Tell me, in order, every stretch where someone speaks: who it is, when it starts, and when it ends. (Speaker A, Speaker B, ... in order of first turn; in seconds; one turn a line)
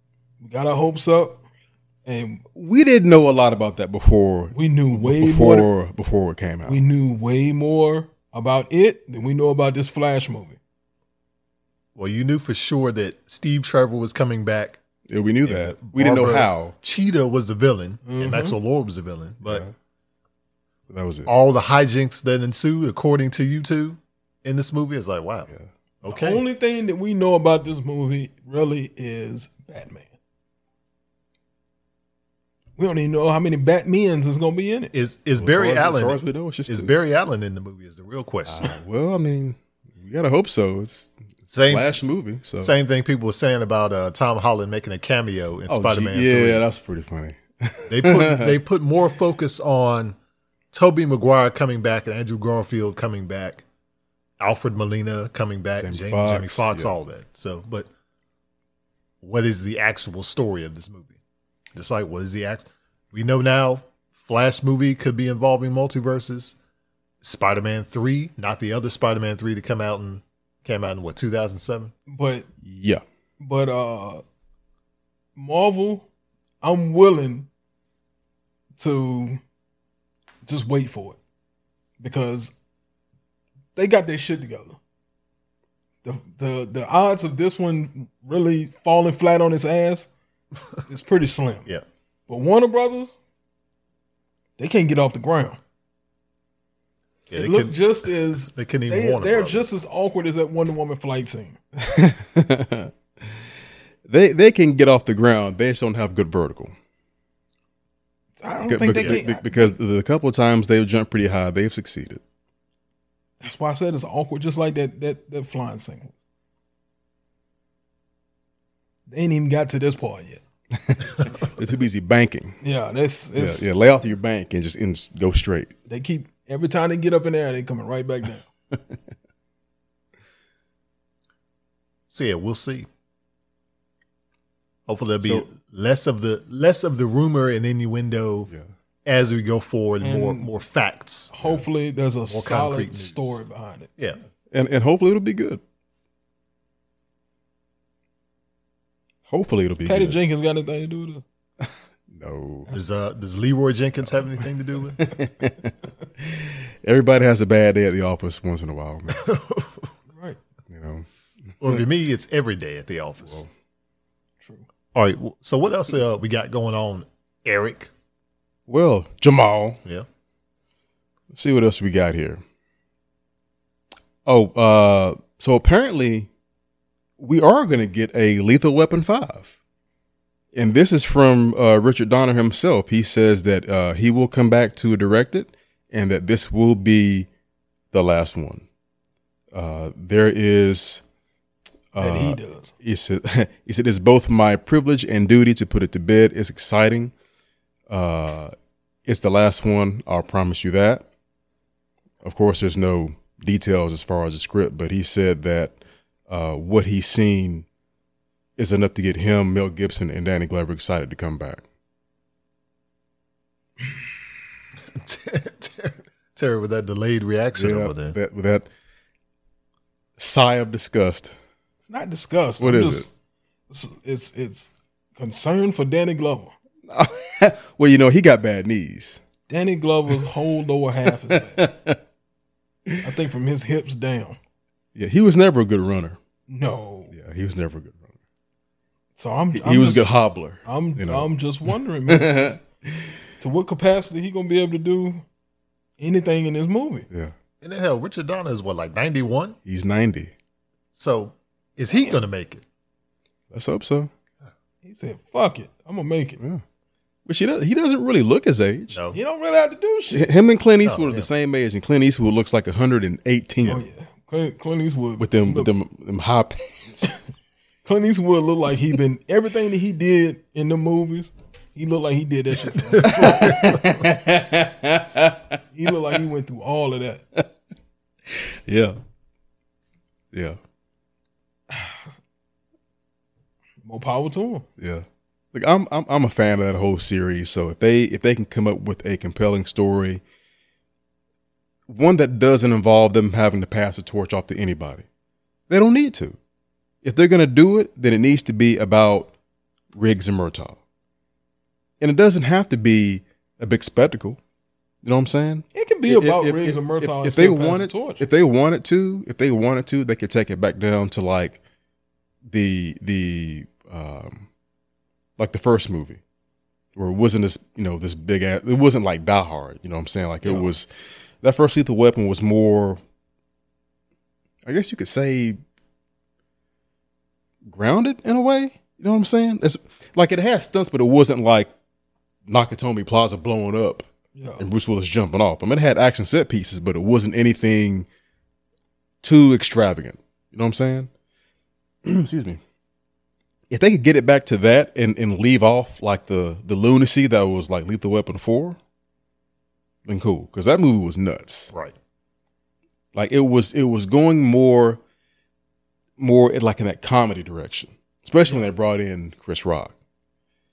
Speaker A: 0.4-1.4
Speaker A: 2.1-2.4
Speaker B: 2.5-6.8
Speaker A: 4.5-5.7
Speaker A: 6.7-10.6
Speaker C: 12.0-14.8
Speaker B: 15.1-16.7
Speaker C: 15.4-19.6
Speaker A: 18.1-18.6
Speaker B: 19.4-19.7
Speaker B: 20.9-21.3
Speaker C: 21.3-25.5
Speaker C: 26.0-26.4
Speaker A: 26.1-30.1
Speaker A: 32.8-34.9
Speaker C: 34.9-38.8
Speaker B: 35.4-36.9
Speaker B: 38.5-41.1
Speaker C: 41.5-41.9
Speaker B: 41.7-42.7
Speaker C: 42.6-46.6
Speaker B: 45.7-48.6
Speaker C: 47.9-50.2
Speaker C: 50.7-53.6
Speaker C: 54.4-57.9
Speaker B: 55.8-56.9
Speaker C: 59.2-61.2
Speaker C: 61.8-66.6
Speaker C: 67.2-71.9
Speaker A: 72.1-72.5
Speaker B: 72.6-73.0
Speaker A: 73.4-74.2
Speaker A: 75.4-76.1
Speaker A: 76.6-77.5
Speaker A: 78.8-79.4
Speaker A: 80.5-81.2
Speaker A: 82.0-82.5
Speaker A: 83.8-84.8
Speaker A: 86.0-90.1
Speaker A: 90.9-91.7
Speaker A: 92.3-93.2
Speaker A: 94.6-95.6
Speaker C: 97.3-97.8
Speaker A: 97.3-101.6
Speaker C: 98.4-99.7
Speaker B: 101.8-102.9
Speaker B: 104.1-106.7
Speaker A: 108.4-109.8
Speaker B: 108.7-112.2
Speaker A: 113.4-116.2
Speaker A: 119.1-120.4
Speaker B: 120.8-122.6
Speaker A: 122.6-123.7
Speaker B: 123.4-125.7
Speaker A: 125.9-128.5
Speaker C: 132.1-132.9
Speaker C: 134.9-138.5
Speaker C: 139.1-141.3
Speaker A: 140.0-140.5
Speaker A: 141.3-143.9
Speaker C: 142.3-143.4
Speaker B: 144.5-145.6
Speaker B: 149.3-150.2
Speaker A: 149.8-151.2
Speaker B: 152.1-152.7
Speaker C: 152.7-155.1
Speaker B: 155.0-159.3
Speaker C: 159.1-159.9
Speaker A: 160.1-160.4
Speaker B: 160.7-161.1
Speaker C: 161.6-163.4
Speaker C: 164.9-167.9
Speaker B: 168.7-169.8
Speaker B: 171.3-172.4
Speaker B: 174.3-176.3
Speaker B: 177.2-179.5
Speaker B: 180.5-187.3
Speaker B: 187.9-188.7
Speaker B: 189.5-191.0
Speaker B: 191.9-197.1
Speaker A: 192.0-192.7
Speaker B: 197.9-198.5
Speaker B: 199.1-201.1
Speaker B: 202.2-205.8
Speaker B: 206.3-207.7
Speaker B: 208.6-211.6
Speaker C: 214.8-218.2
Speaker B: 217.6-218.7
Speaker B: 220.2-221.4
Speaker A: 221.8-223.1
Speaker B: 222.6-223.1
Speaker A: 223.7-226.5
Speaker B: 226.9-229.2
Speaker A: 229.5-231.7
Speaker B: 231.3-232.0
Speaker A: 233.0-234.4
Speaker B: 234.9-236.2
Speaker A: 236.5-237.1
Speaker B: 237.1-238.1
Speaker A: 239.2-240.1
Speaker B: 239.6-243.1
Speaker A: 240.6-242.6
Speaker A: 243.4-245.2
Speaker A: 246.0-247.1
Speaker C: 247.6-249.6
Speaker B: 249.7-250.3
Speaker C: 250.9-252.6
Speaker B: 253.5-254.1
Speaker A: 254.8-256.4
Speaker B: 257.3-259.0
Speaker C: 258.9-259.2
Speaker A: 259.1-260.3
Speaker B: 260.1-263.8
Speaker C: 260.8-261.3
Speaker A: 263.7-265.7
Speaker B: 265.2-267.1
Speaker A: 267.9-273.8
Speaker C: 272.9-274.0
Speaker B: 273.0-275.6
Speaker A: 275.7-277.2
Speaker B: 278.3-279.0
Speaker B: 280.3-280.6
Speaker A: 281.7-282.0
Speaker A: 283.8-284.7
Speaker B: 284.8-290.2
Speaker B: 291.9-295.1
Speaker B: 295.7-296.4
Speaker B: 297.0-299.3
Speaker B: 299.9-300.8
Speaker B: 302.0-304.4
Speaker B: 305.0-311.6
Speaker A: 305.7-308.2
Speaker B: 312.5-314.5
Speaker B: 315.4-316.2
Speaker B: 317.0-320.9
Speaker A: 320.4-320.7
Speaker B: 321.4-323.0
Speaker B: 324.7-325.6
Speaker B: 327.6-331.7
Speaker B: 332.5-334.1
Speaker A: 334.4-334.6
Speaker B: 334.6-338.1
Speaker B: 339.2-341.1
Speaker B: 342.1-342.6
Speaker B: 343.7-348.8
Speaker B: 350.1-351.7
Speaker B: 353.1-355.0
Speaker B: 356.2-359.9